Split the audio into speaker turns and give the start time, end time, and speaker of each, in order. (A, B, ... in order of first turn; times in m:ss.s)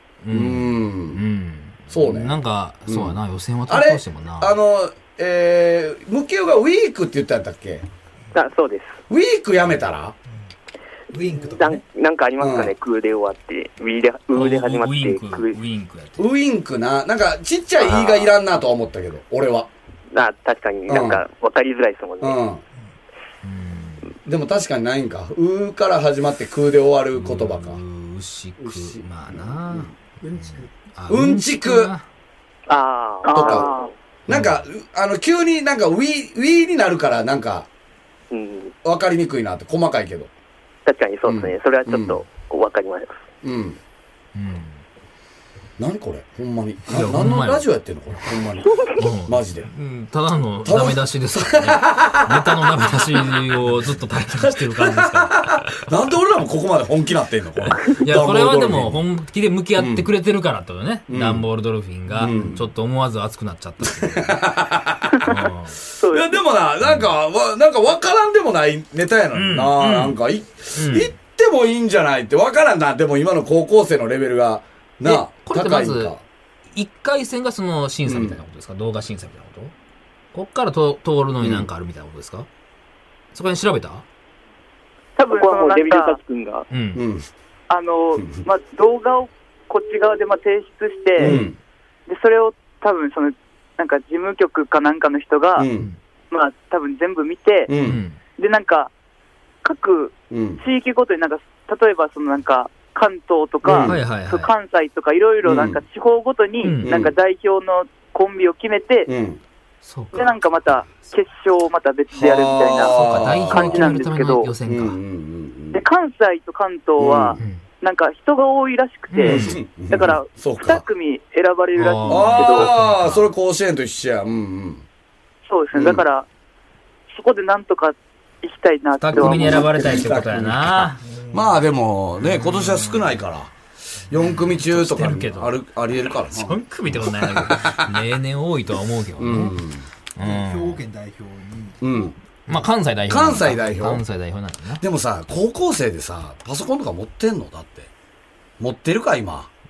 0:00.2-0:04.6 A
0:00.3-0:01.2 B
0:01.9-0:02.4 B
0:02.9-0:07.9 B
0:08.3-0:09.0 C
0:09.1-0:10.2 B
0:10.3-0:10.5 D
0:11.1-0:11.8 D
0:11.6-0:15.6 C
0:12.4-0:12.7 B
0:14.3-0:16.3 A
0:16.2-0:19.7 B
0:17.8-0:18.3 C
0:20.1-0:22.4 C
0:20.9-0:21.2 B
0:22.2-0:22.6 B
0:23.4-0:24.1 A
0:24.3-0:27.8 B
0:27.2-0:32.0 A
0:28.6-0:29.9 B
0:31.1-0:31.9 B
0:32.7-0:33.9 C
0:33.2-0:33.9 E
0:33.4-0:33.7 B
0:34.3-0:37.7 B
0:34.3-0:34.6 A
0:38.3-0:38.7 C
0:38.8-0:40.3 B
0:40.9-0:43.3 C
0:41.3-0:42.2 B
0:43.4-0:43.8 B
0:44.4-0:44.8 A
0:45.8-0:49.7 B
0:46.9-0:47.7 A
0:49.0-0:55.6 A
0:50.6-0:53.4 B
0:54.4-0:59.0 B
0:58.0-1:04.4 A
0:59.8-1:00.1 B
1:01.1-1:01.4 B
1:02.1-1:02.6 B
1:04.0-1:05.4 B
1:05.3-1:05.8 A
1:06.0-1:06.4 E
1:06.0-1:16.2 B
1:06.8-1:07.1 A
1:09.3-1:10.2 A
1:10.8-1:11.1 A
1:15.0-1:16.1 A
1:16.8-1:19.7 A
1:18.1-1:18.4 B
1:20.3-1:22.5 A
1:21.4-1:21.7 B
1:23.3-1:24.0 A
1:25.2-1:26.2 E
1:25.3-1:26.7 C
1:26.7-1:27.0 A
1:27.0-1:27.3 B
1:27.7-1:31.3 E
1:31.2-1:31.6 B
1:31.2-1:31.5 A
1:32.1-1:35.7 E
1:35.6-1:35.9 B
1:36.3-1:37.7 E
1:37.7-1:38.0 B
1:37.8-1:38.2 A
1:38.4-1:38.9 E
1:39.6-1:49.1 E
1:40.3-1:40.6 B
1:43.6-1:44.0 B
1:43.8-1:44.5 A
1:45.4-1:45.8 B
1:46.6-1:46.9 A
1:46.8-1:47.1 B
1:49.1-1:49.4 B
1:49.8-1:50.3 A
1:50.2-1:54.5 E
1:52.1-1:53.9 B
1:52.9-1:55.0 A
1:54.6-1:55.8 B
1:55.7-2:02.7 E
1:57.0-1:57.4 B
1:59.1-1:59.6 A
1:59.2-2:00.8 B
2:01.8-2:03.3 A
2:02.1-2:04.8 B
2:05.5-2:06.3 E
2:05.8-2:06.0 B
2:07.1-2:09.6 E
2:09.0-2:11.0 A
2:09.1-2:13.5 B
2:11.0-2:11.6 D
2:12.2-2:13.2 A
2:14.1-2:17.9 B
2:14.1-2:15.6 A
2:16.3-2:19.6 A
2:19.2-2:19.9 B
2:20.2-2:20.8 A
2:20.2-2:21.8 D
2:21.8-2:22.2 B
2:22.5-2:24.8 A
2:23.1-2:24.0 B
2:24.8-2:27.9 B
2:28.6-2:29.5 B